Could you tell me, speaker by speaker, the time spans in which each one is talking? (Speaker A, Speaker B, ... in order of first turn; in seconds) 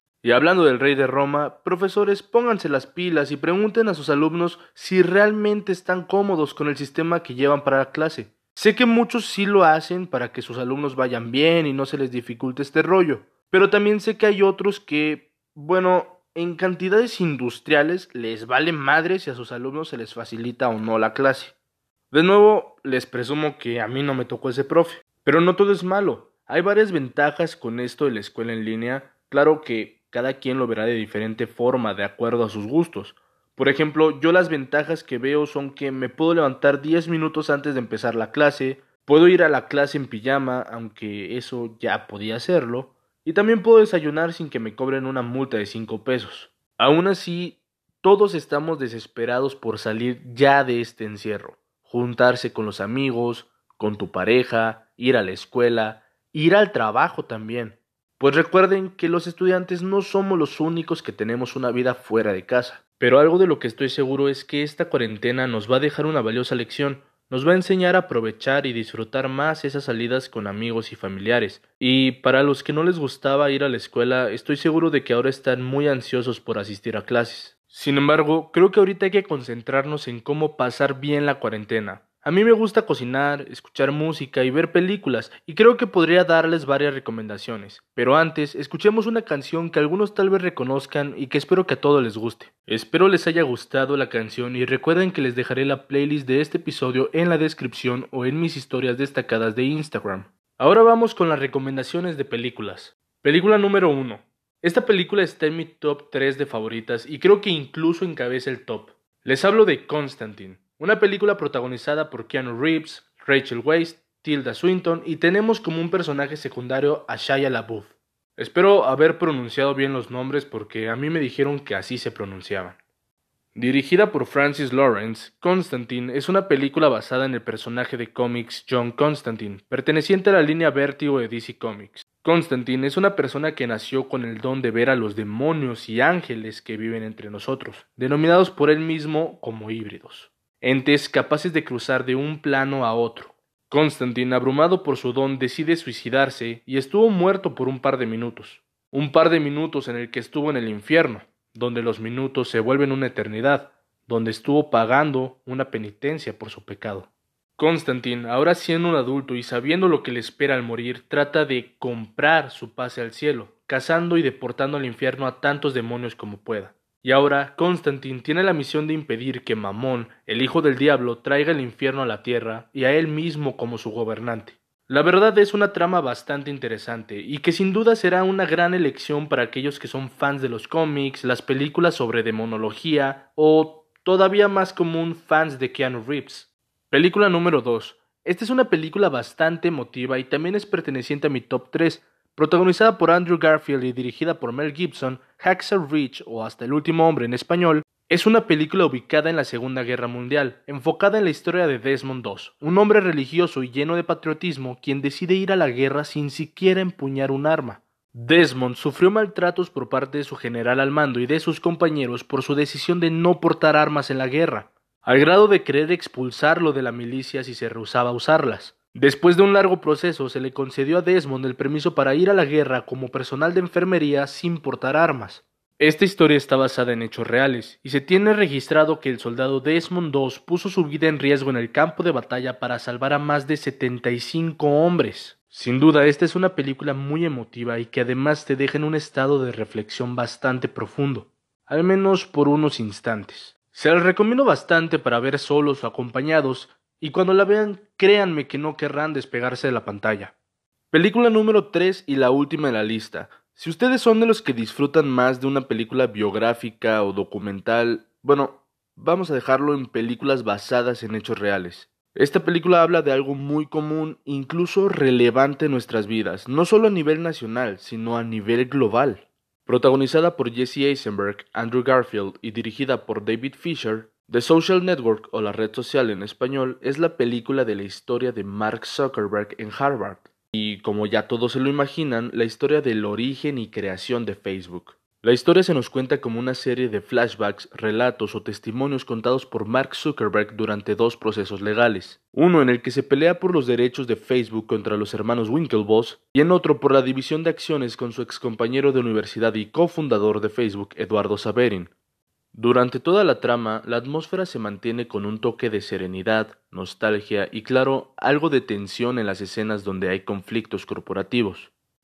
Speaker A: 0.2-21.5, 22.1-122.8, 123.5-250.3, 250.9-301.9, 302.5-311.7